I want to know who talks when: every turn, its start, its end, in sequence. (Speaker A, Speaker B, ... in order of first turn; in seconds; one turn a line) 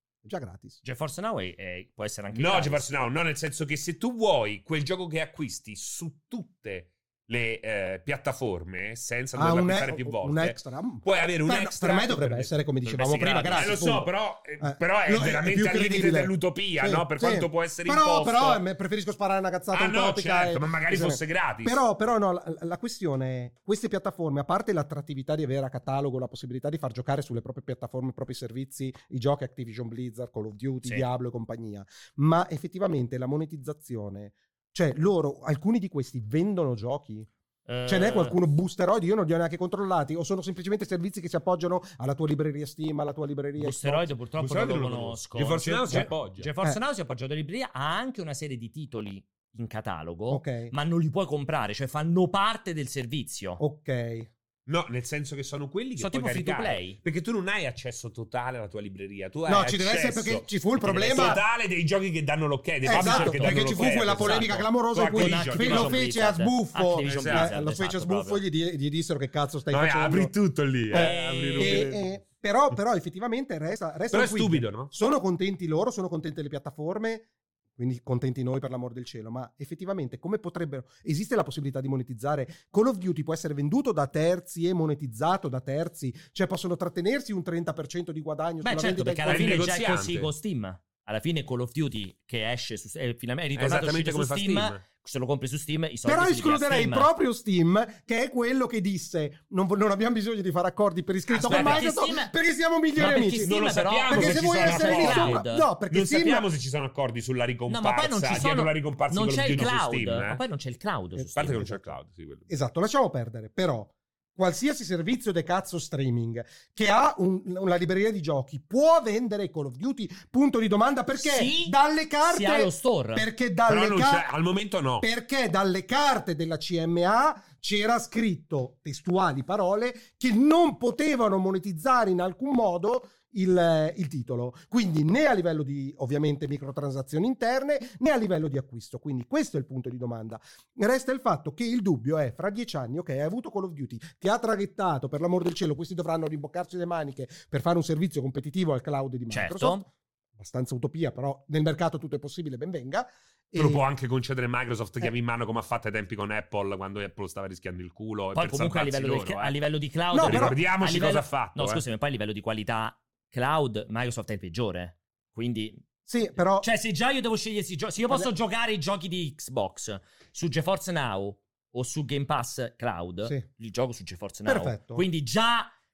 Speaker A: 0.2-0.8
Speaker B: 0.8-2.9
Speaker C: 2.3-12.5
Speaker A: 9.3-37.3
Speaker B: 12.9-13.7
Speaker C: 13.3-18.6
Speaker C: 19.7-21.8
Speaker B: 37.7-38.4
Speaker A: 37.9-44.1
Speaker B: 43.6-53.6
Speaker C: 44.4-46.5
Speaker A: 50.3-50.7
Speaker A: 53.6-54.3
Speaker C: 54.7-66.0
Speaker B: 56.0-57.0
Speaker A: 59.5-61.4
Speaker B: 60.8-61.4
Speaker A: 62.8-70.3
Speaker B: 62.9-68.4
Speaker C: 67.0-67.5
Speaker C: 69.7-72.1
Speaker A: 70.9-89.7
Speaker B: 70.9-71.9
Speaker C: 74.1-74.9
Speaker B: 88.6-97.1
Speaker C: 89.2-90.3
Speaker C: 93.6-94.8
Speaker A: 96.0-103.5
Speaker B: 101.3-102.3
Speaker C: 101.4-101.9
Speaker B: 103.0-105.7
Speaker C: 103.4-110.4
Speaker A: 104.1-106.5
Speaker B: 107.7-111.7
Speaker C: 111.3-112.5
Speaker A: 111.4-111.9
Speaker A: 112.5-124.3
Speaker B: 121.2-123.3
Speaker C: 123.7-125.1
Speaker A: 125.0-153.8
Speaker B: 149.3-149.8
Speaker C: 153.6-159.5
Speaker B: 158.3-165.8
Speaker A: 160.1-160.6
Speaker C: 160.2-161.8
Speaker A: 166.1-166.7
Speaker B: 166.6-175.7
Speaker A: 174.4-175.1